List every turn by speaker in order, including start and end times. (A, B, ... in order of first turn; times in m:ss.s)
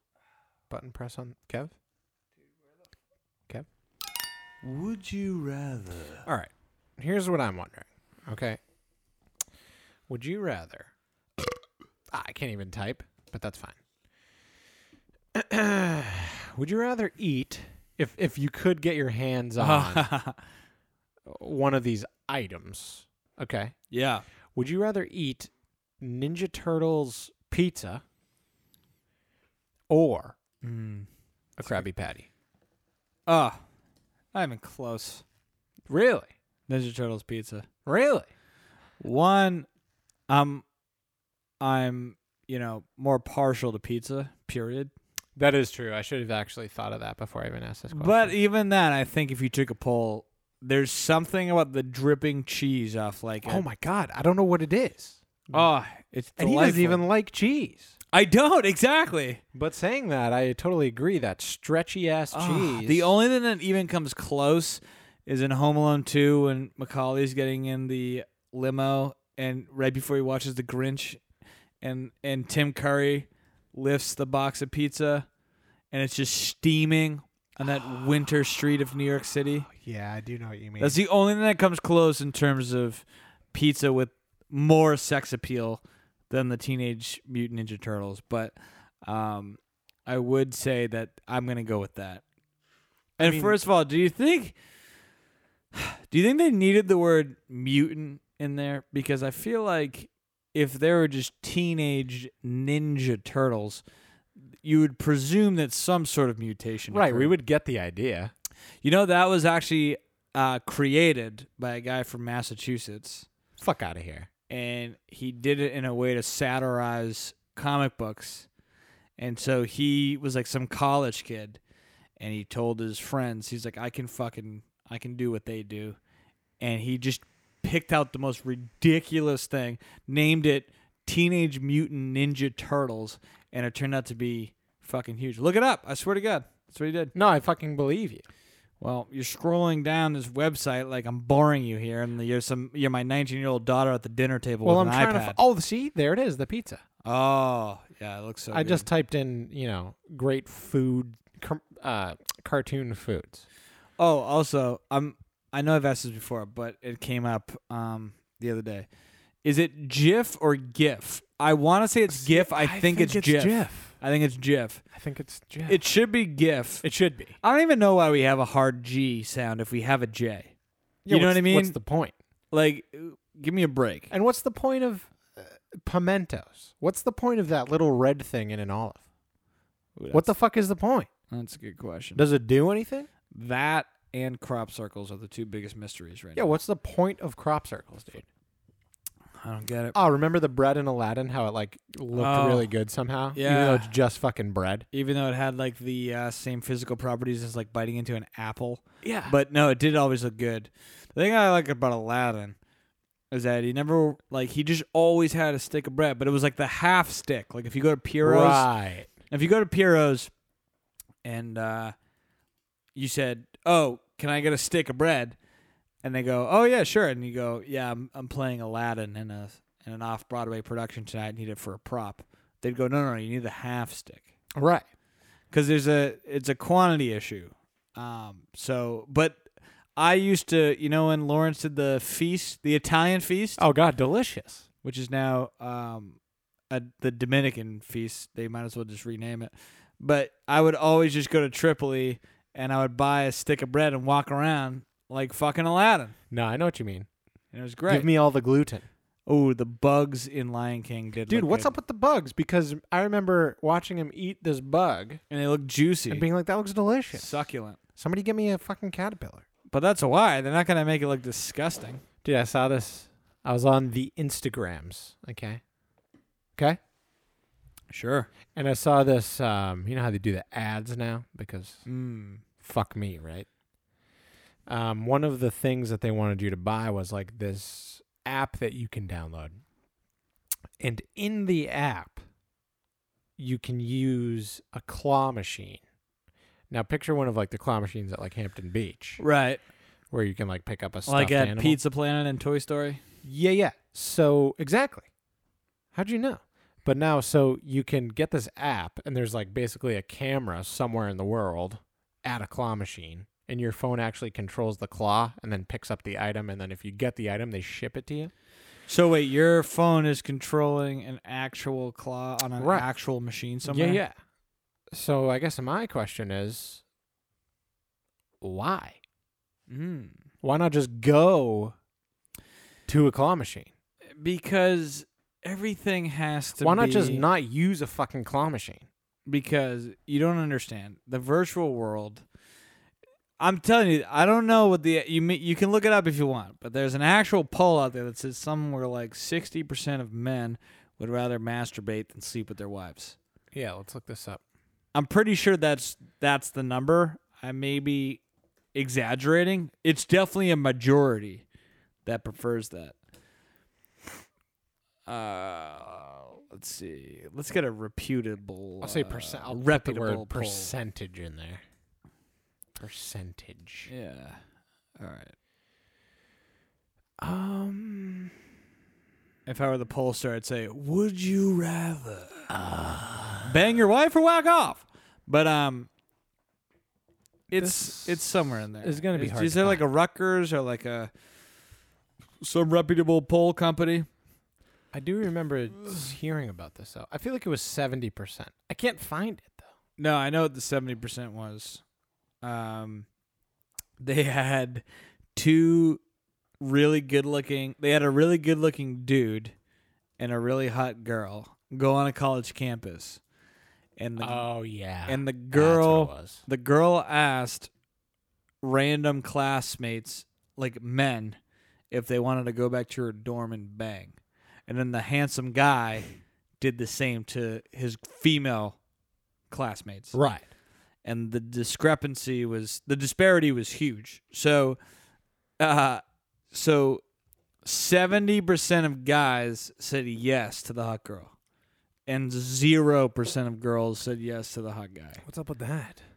0:00.7-0:01.7 A
0:04.6-0:06.3 B
0:06.2-0:08.6 A
0:10.1-0:10.9 A
0:12.1-0:13.8 A
0:15.3-0:20.1 A
0:19.6-0:20.4 B
0:21.2-0:23.7 A
0:23.9-0:24.2 B
0:24.5-0:28.0 A
0:29.9-0:30.4 A
0:30.6-0:31.1 B
0:31.6-0:32.3 A
0:33.3-0:33.6 B
0:34.3-0:35.2 B
0:35.9-0:36.3 A
0:36.7-0:37.6 B
0:37.8-0:38.3 A
0:39.0-0:39.6 B
0:40.3-0:40.6 B
0:41.6-0:44.9 B
0:45.4-0:48.3 A
0:47.9-0:53.6 B
0:53.4-0:55.7 A
0:55.5-0:57.0 B
0:56.4-0:57.9 A
0:58.1-0:59.4 B
0:59.5-1:03.1 A
1:02.3-1:11.2 B
1:11.8-1:15.3 B
1:15.9-1:19.7 B
1:19.7-1:21.0 A
1:20.8-1:32.2 B
1:33.2-1:34.6 B
1:33.2-1:33.6 A
1:35.7-1:43.8 B
1:44.6-1:47.3 B
1:46.9-1:48.3 A
1:48.8-1:53.3 B
1:53.6-1:54.3 A
1:54.5-1:58.5 B
1:59.2-2:01.6 B
2:02.2-2:06.0 B
2:06.6-2:17.1 B
2:17.1-2:18.2 A
2:18.8-2:25.4 B
2:24.6-2:26.8 A
2:27.0-2:28.9 B
2:28.5-2:33.4 A
2:34.0-2:38.8 B
2:39.4-2:44.8 B
2:42.1-2:44.0 A
2:44.9-2:45.8 A
2:45.6-2:46.8 B
2:46.8-2:47.4 A
2:47.4-2:50.5 B
2:51.0-2:52.1 A
2:51.1-2:51.8 B
2:52.5-2:54.1 B
2:54.1-2:59.0 A
3:00.0-3:00.3 B
3:00.1-3:01.1 A
3:01.3-3:02.2 B
3:02.2-3:03.1 A
3:03.3-3:06.5 B
3:06.4-3:08.2 A
3:09.4-3:10.0 B
3:09.9-3:14.9 A
3:12.1-3:12.7 B
3:13.3-3:13.9 B
3:14.9-3:22.6 B
3:19.0-3:19.3 A
3:23.3-3:28.7 B
3:28.2-3:29.1 A
3:29.3-3:30.3 B
3:31.2-3:31.9 B
3:32.9-3:35.4 B
3:36.0-3:44.3 B
3:44.6-3:44.8 A
3:45.5-3:49.4 B
3:50.0-3:53.6 B
3:53.6-3:54.6 A
3:54.8-3:56.2 B
3:56.7-4:06.1 B
4:06.3-4:07.1 A
4:07.5-4:08.1 B
4:07.9-4:08.8 A
4:09.2-4:11.7 B
4:11.3-4:15.2 A
4:15.3-4:16.3 B
4:16.1-4:17.3 A
4:17.1-4:17.8 B
4:18.0-4:19.4 A
4:19.7-4:22.0 B
4:22.2-4:25.6 A
4:27.9-4:28.3 B
4:28.5-4:31.8 A
4:31.8-4:32.4 B
4:32.6-4:33.5 A
4:34.7-4:39.6 A
4:40.8-4:42.2 A
4:43.4-4:45.8 A
4:46.7-4:49.2 A
4:49.2-4:49.6 B
4:50.1-4:51.8 A
4:51.0-4:53.0 B
4:53.2-4:55.1 A
4:55.9-5:08.3 A
5:08.9-5:14.0 B
5:12.6-5:12.9 A
5:13.6-5:14.2 A
5:14.9-5:16.8 A
5:18.4-5:19.0 A
5:19.7-5:20.2 B
5:20.4-5:21.7 A
5:22.9-5:23.7 A
5:24.2-5:27.2 B
5:26.6-5:28.9 A
5:29.2-5:32.2 B
5:33.4-5:43.2 B
5:43.5-5:44.4 A
5:44.9-5:48.2 B
5:48.7-5:51.4 B
5:52.0-5:53.0 B
5:55.1-6:00.7 B
5:58.8-6:01.6 A
6:02.8-6:03.9 A
6:03.9-6:04.4 B
6:05.0-6:05.3 B
6:07.2-6:08.3 A
6:09.4-6:12.5 B
6:12.5-6:13.5 A
6:13.4-6:15.9 B
6:17.5-6:21.1 B
6:17.5-6:19.8 A
6:22.4-6:24.1 B
6:24.9-6:29.7 A
6:30.0-6:31.8 B
6:32.4-6:33.0 B
6:34.0-6:34.8 B
6:35.4-6:36.0 B
6:36.6-6:39.5 B
6:40.2-6:43.2 B
6:44.0-6:44.4 B
6:44.2-6:46.4 A
6:45.1-6:47.7 B
6:48.6-6:51.4 B
6:51.9-6:54.2 B
6:54.7-6:56.1 B
6:56.6-6:58.8 B
6:59.5-7:00.2 B
7:00.1-7:00.4 A
7:01.0-7:04.8 B
7:05.6-7:07.0 B
7:07.6-7:11.3 B
7:12.1-7:15.2 B
7:15.2-7:16.0 A